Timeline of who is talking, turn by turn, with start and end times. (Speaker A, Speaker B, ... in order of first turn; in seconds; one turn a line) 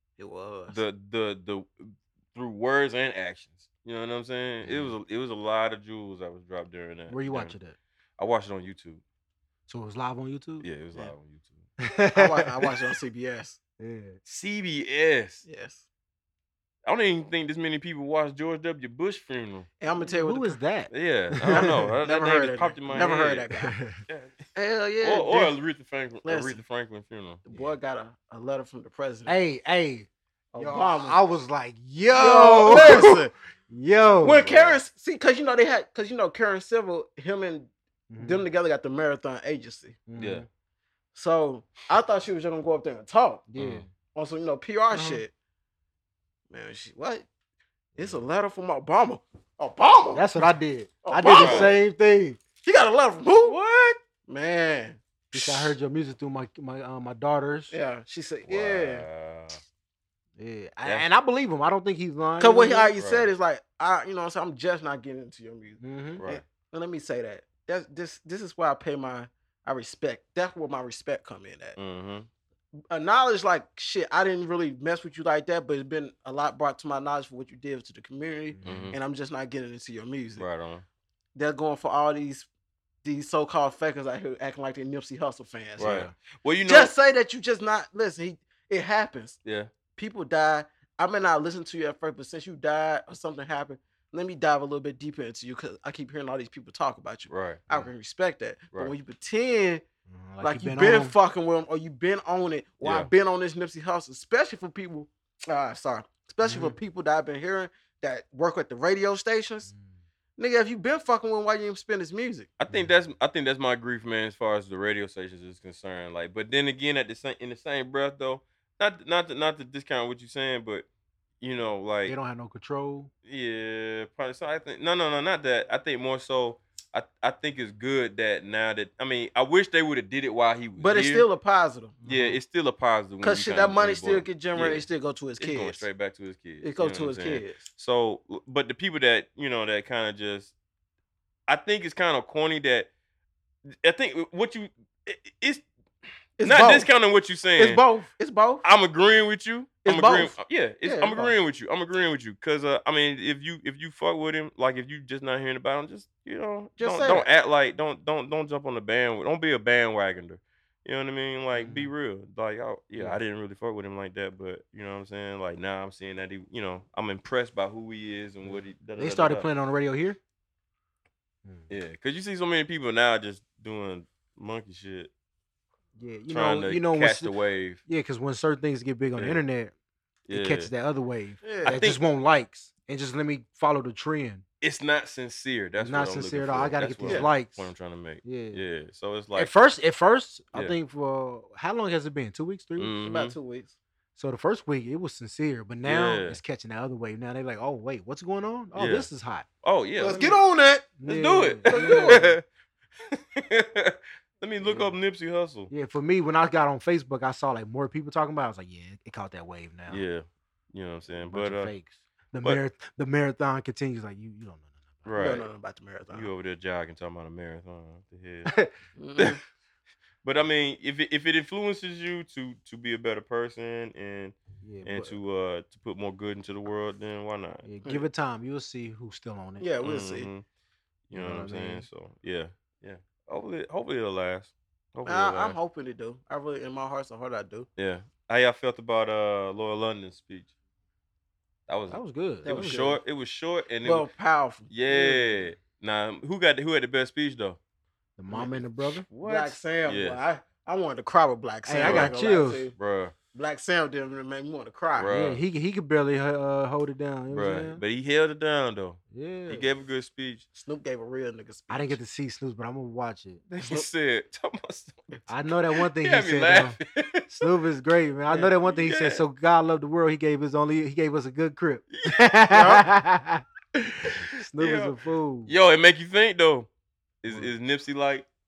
Speaker A: 0.2-0.8
Speaker B: 0.7-7.5
Speaker C: 4.6-4.9
Speaker C: 7.1-7.8
Speaker B: 8.2-9.0
Speaker C: 9.7-10.7
Speaker B: 10.6-11.7
Speaker C: 11.8-12.7
Speaker A: 12.1-13.6
Speaker C: 13.8-14.2
Speaker B: 14.2-15.4
Speaker A: 15.4-15.8
Speaker B: 16.9-19.7
Speaker A: 19.8-20.6
Speaker C: 20.0-21.8
Speaker B: 20.9-23.5
Speaker A: 21.5-23.8
Speaker C: 23.7-24.0
Speaker B: 24.1-24.4
Speaker A: 24.6-25.5
Speaker B: 25.0-27.4
Speaker A: 26.2-26.6
Speaker A: 27.4-29.4
Speaker C: 29.2-33.2
Speaker A: 30.5-31.2
Speaker A: 32.1-33.3
Speaker C: 33.7-34.6
Speaker A: 34.2-40.0
Speaker C: 38.1-38.4
Speaker C: 40.1-40.5
Speaker B: 40.2-40.4
Speaker A: 41.1-43.5
Speaker C: 43.5-43.9
Speaker B: 43.6-43.8
Speaker A: 44.1-45.3
Speaker C: 44.9-45.2
Speaker A: 46.5-47.2
Speaker C: 48.0-48.2
Speaker A: 48.0-50.5
Speaker C: 50.1-52.4
Speaker A: 51.0-51.8
Speaker B: 51.2-51.8
Speaker A: 52.6-53.5
Speaker B: 53.4-54.0
Speaker A: 54.3-55.7
Speaker C: 55.3-57.7
Speaker A: 57.7-59.0
Speaker B: 58.5-59.6
Speaker C: 60.4-62.9
Speaker A: 62.4-71.8
Speaker B: 63.0-63.3
Speaker C: 65.8-66.2
Speaker B: 71.8-72.3
Speaker A: 72.9-80.5
Speaker C: 78.5-79.0
Speaker B: 78.6-79.0
Speaker B: 80.4-80.8
Speaker A: 81.3-82.5
Speaker A: 83.0-86.0
Speaker C: 85.8-86.1
Speaker B: 85.8-86.9
Speaker A: 86.6-89.4
Speaker B: 89.4-89.7
Speaker A: 90.0-99.8
Speaker B: 97.3-97.6
Speaker C: 100.1-101.1
Speaker A: 100.4-109.7
Speaker B: 102.8-103.1
Speaker C: 106.4-106.8
Speaker C: 109.7-110.0
Speaker A: 110.4-112.5
Speaker B: 112.6-120.8
Speaker B: 121.4-122.2
Speaker C: 122.0-123.1
Speaker B: 123.2-131.2
Speaker A: 130.8-132.0
Speaker C: 132.0-132.4
Speaker B: 132.1-134.8
Speaker A: 133.2-135.9
Speaker B: 135.4-140.5
Speaker A: 136.6-137.6
Speaker B: 141.5-142.9
Speaker B: 143.7-145.7
Speaker A: 146.4-146.9
Speaker B: 146.4-147.8
Speaker A: 147.6-148.7
Speaker B: 148.6-169.5
Speaker A: 149.8-151.3
Speaker A: 156.8-157.3
Speaker C: 161.5-161.9
Speaker C: 168.4-170.2
Speaker B: 171.7-175.1
Speaker C: 175.9-177.3
Speaker B: 176.3-177.8
Speaker C: 177.8-179.7
Speaker B: 180.3-180.7
Speaker C: 180.3-184.4
Speaker A: 181.4-181.8
Speaker B: 181.7-182.0
Speaker B: 184.6-189.5
Speaker C: 185.8-187.7
Speaker C: 188.2-188.6
Speaker C: 189.4-192.9
Speaker B: 192.8-193.3
Speaker A: 193.0-193.8
Speaker C: 194.2-199.4
Speaker B: 195.8-196.4
Speaker B: 198.7-199.1
Speaker B: 199.6-200.4
Speaker A: 200.0-200.9
Speaker C: 201.0-202.3
Speaker B: 201.1-202.4
Speaker A: 201.7-202.3
Speaker B: 203.1-205.7
Speaker C: 204.6-204.9
Speaker C: 205.7-210.0
Speaker B: 209.9-211.7
Speaker C: 211.3-215.2
Speaker B: 215.0-215.4
Speaker A: 215.2-216.3
Speaker B: 216.1-218.5
Speaker C: 218.4-218.7
Speaker A: 219.0-219.4
Speaker B: 219.2-219.4
Speaker B: 220.2-227.7
Speaker C: 224.6-225.1
Speaker C: 227.6-229.7
Speaker A: 229.6-230.3
Speaker B: 229.8-230.4
Speaker B: 231.1-235.6
Speaker C: 231.1-231.9
Speaker A: 235.0-237.7
Speaker B: 237.8-240.5
Speaker B: 241.7-244.1
Speaker C: 241.9-242.8
Speaker A: 242.4-243.0
Speaker A: 243.8-244.7
Speaker B: 244.7-247.6
Speaker C: 244.9-245.4
Speaker C: 248.2-249.1
Speaker A: 248.3-248.6
Speaker B: 249.1-250.2
Speaker A: 249.2-252.7
Speaker C: 251.7-252.7
Speaker B: 251.8-252.1
Speaker B: 252.8-253.1
Speaker A: 253.3-255.1
Speaker B: 255.0-255.4
Speaker C: 255.1-257.8
Speaker B: 257.3-260.4
Speaker C: 259.1-259.7
Speaker A: 260.5-262.0
Speaker C: 261.7-263.5
Speaker B: 263.5-265.2
Speaker A: 263.6-263.9
Speaker C: 265.3-266.8
Speaker B: 265.8-267.5
Speaker C: 267.3-273.4
Speaker B: 268.3-269.2
Speaker B: 271.9-272.8
Speaker A: 272.5-272.8
Speaker C: 274.0-275.5
Speaker B: 274.6-274.9
Speaker B: 275.5-276.7
Speaker B: 277.2-278.2